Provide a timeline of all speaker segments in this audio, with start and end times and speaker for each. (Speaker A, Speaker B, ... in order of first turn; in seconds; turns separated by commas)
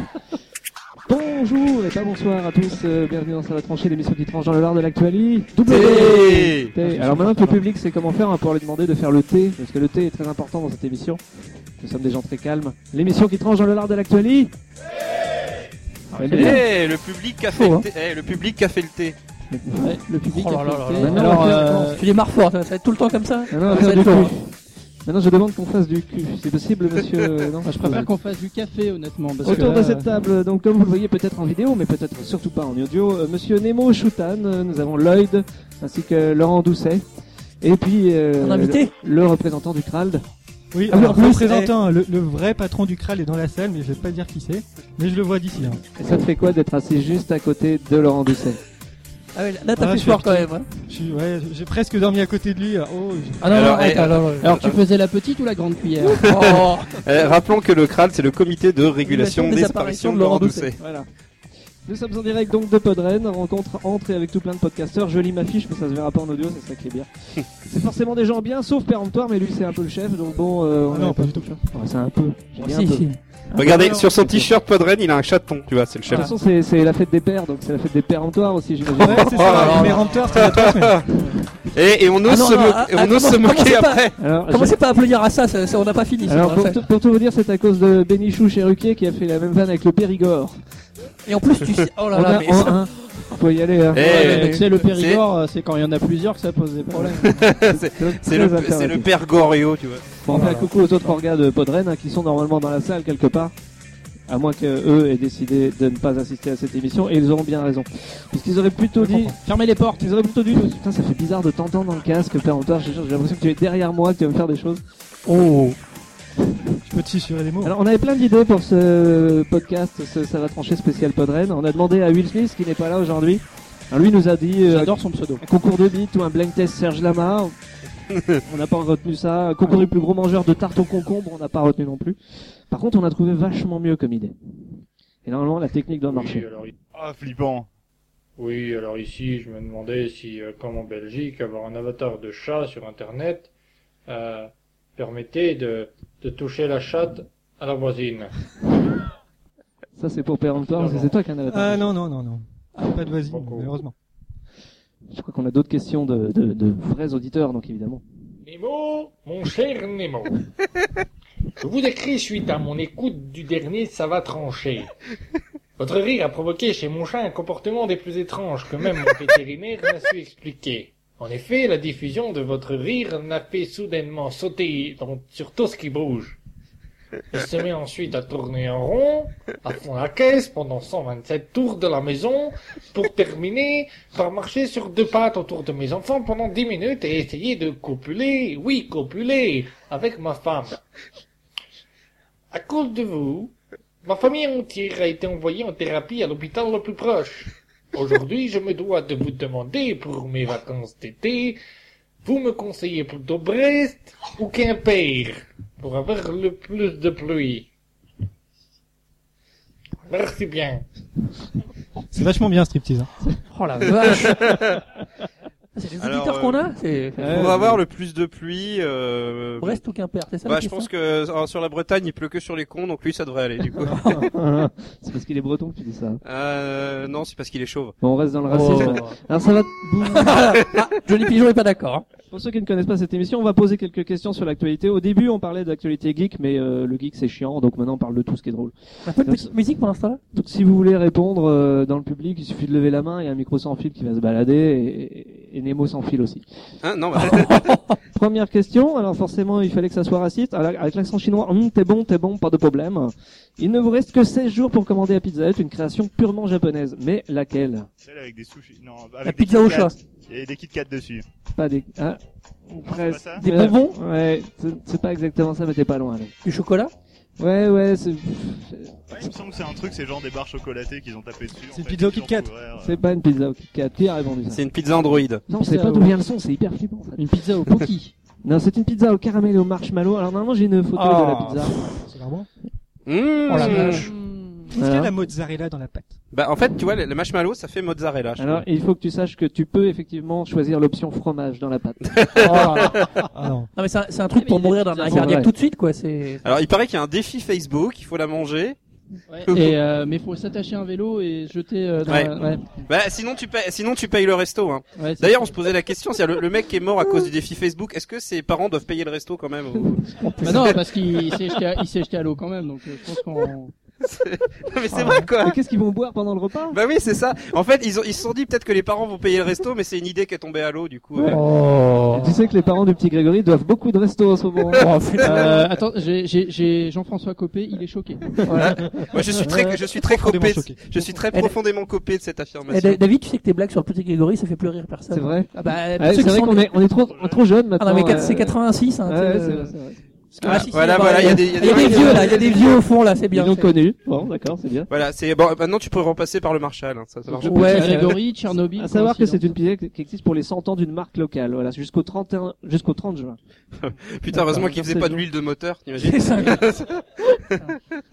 Speaker A: 1.1-11.2, Speaker B: 5.6-6.7, Speaker C: 6.8-7.6, Speaker A: 11.8-14.5, Speaker A: 16.1-16.6, Speaker D: 16.3-16.6, Speaker B: 16.3-19.2, Speaker D: 17.5-17.9, Speaker A: 19.5-20.0, Speaker E: 19.8-22.0, Speaker D: 20.3-24.4, Speaker A: 21.0-22.0, Speaker A: 23.5-24.5, Speaker A: 25.1-28.1, Speaker E: 27.6-30.1, Speaker A: 29.4-37.0, Speaker A: 37.6-40.2, Speaker D: 38.4-38.9, Speaker C: 40.7-45.8, Speaker A: 40.9-41.2, Speaker D: 40.9-41.7, Speaker A: 46.0-48.6, Speaker D: 49.3-50.6, Speaker C: 49.8-53.4, Speaker D: 53.4-54.5, Speaker B: 53.4-54.8, Speaker E: 54.4-56.3, Speaker B: 56.2-60.8, Speaker D: 56.2-57.0, Speaker D: 59.0-60.7, Speaker A: 60.8-61.1, Speaker A: 61.8-67.1, Speaker A: 67.6-74.5, Speaker C: 70.9-71.5, Speaker D: 72.6-73.2, Speaker B: 73.5-76.3, Speaker C: 73.6-74.1, Speaker A: 76.1-79.7, Speaker C: 78.9-81.0, Speaker B: 79.0-81.1, Speaker D: 79.4-80.0, Speaker B: 81.7-84.2, Speaker D: 82.2-86.8, Speaker A: 84.2-84.8, Speaker A: 86.3-90.6, Speaker D: 91.3-92.8, Speaker A: 92.1-94.3, Speaker B: 93.9-95.2, Speaker D: 94.0-94.6, Speaker E: 94.0-97.4, Speaker A: 96.9-99.1, Speaker B: 97.3-100.2, Speaker A: 100.2-103.5, Speaker C: 100.3-100.7, Speaker A: 104.3-109.4, Speaker C: 109.0-109.3, Speaker E: 109.4-110.1, Speaker A: 109.9-114.8, Speaker D: 115.2-115.8, Speaker C: 116.8-117.7, Speaker A: 117.6-127.5, Speaker E: 124.6-125.4, Speaker B: 128.1-128.4, Speaker A: 128.5-132.2, Speaker A: 132.7-134.3, Speaker A: 135.2-136.4, Speaker F: 136.1-136.7, Speaker G: 136.9-137.7, Speaker F: 138.4-143.5, Speaker F: 144.1-148.3, Speaker A: 150.0-151.9, Speaker F: 150.6-151.1, Speaker C: 151.5-153.9, Speaker F: 153.2-153.7, Speaker A: 155.1-158.0, Speaker F: 158.4-160.4, Speaker F: 161.6-164.9, Speaker F: 165.8-176.4, Speaker F: 177.3-190.8, Speaker F: 192.5-201.6, Speaker F: 202.2-207.7, Speaker F: 210.1-210.8, Speaker C: 212.1-213.1, Speaker D: 213.5-214.5, Speaker B: 213.8-214.8, Speaker D: 215.8-217.5, Speaker B: 216.0-216.6, Speaker A: 217.2-217.8, Speaker B: 217.3-219.8, Speaker D: 219.6-220.9, Speaker B: 220.4-224.1, Speaker A: 223.9-226.2, Speaker B: 226.2-227.9, Speaker A: 228.0-230.4, Speaker D: 228.5-229.2, Speaker D: 230.1-232.0, Speaker A: 232.3-239.5, Speaker D: 239.1-240.2, Speaker A: 240.3-246.4, Speaker B: 246.8-247.8, Speaker D: 247.3-247.9, Speaker A: 248.1-257.9, Speaker G: 258.0-261.2, Speaker D: 259.2-259.9, Speaker A: 261.5-266.3, Speaker G: 262.8-263.4, Speaker D: 263.4-264.0, Speaker D: 266.4-266.9, Speaker A: 267.4-268.9, Speaker G: 269.1-273.0, Speaker C: 271.7-272.5, Speaker A: 272.8-274.6, Speaker B: 274.5-275.4, Speaker A: 275.5-277.2, Speaker E: 275.5-276.1, Speaker E: 277.2-278.1, Speaker A: 278.4-281.8, Speaker C: 282.0-282.5, Speaker B: 283.1-284.1, Speaker D: 283.5-284.1, Speaker C: 284.7-286.2, Speaker A: 284.8-285.1, Speaker B: 286.3-288.6, Speaker A: 288.4-292.6, Speaker B: 292.1-293.1, Speaker D: 292.4-293.0, Speaker C: 293.3-293.7, Speaker D: 293.8-296.4, Speaker E: 294.4-295.4, Speaker A: 295.1-295.5, Speaker B: 296.4-298.8, Speaker E: 299.3-302.8, Speaker B: 299.5-299.8, Speaker B: 302.1-310.7, Speaker E: 304.9-305.3, Speaker D: 310.2-310.7, Speaker E: 310.4-313.7, Speaker B: 314.0-315.6, Speaker D: 314.9-315.3, Speaker A: 315.4-316.8, Speaker B: 316.7-321.4, Speaker A: 321.1-321.4, Speaker D: 321.2-322.3, Speaker A: 322.1-324.9, Speaker D: 324.7-325.6, Speaker E: 325.2-328.4, Speaker A: 328.4-328.9, Speaker D: 328.4-328.8, Speaker B: 329.1-333.0, Speaker A: 329.4-329.7, Speaker C: 329.9-331.0, Speaker D: 332.7-336.6, Speaker A: 335.1-342.7, Speaker G: 337.0-337.4, Speaker D: 337.8-339.7, Speaker D: 340.4-343.7, Speaker B: 340.4-342.7, Speaker A: 343.3-344.9, Speaker B: 344.9-347.9, Speaker A: 347.4-353.4, Speaker D: 347.4-348.1, Speaker E: 347.4-349.5, Speaker B: 353.8-357.3, Speaker A: 354.3-355.2, Speaker D: 356.0-356.7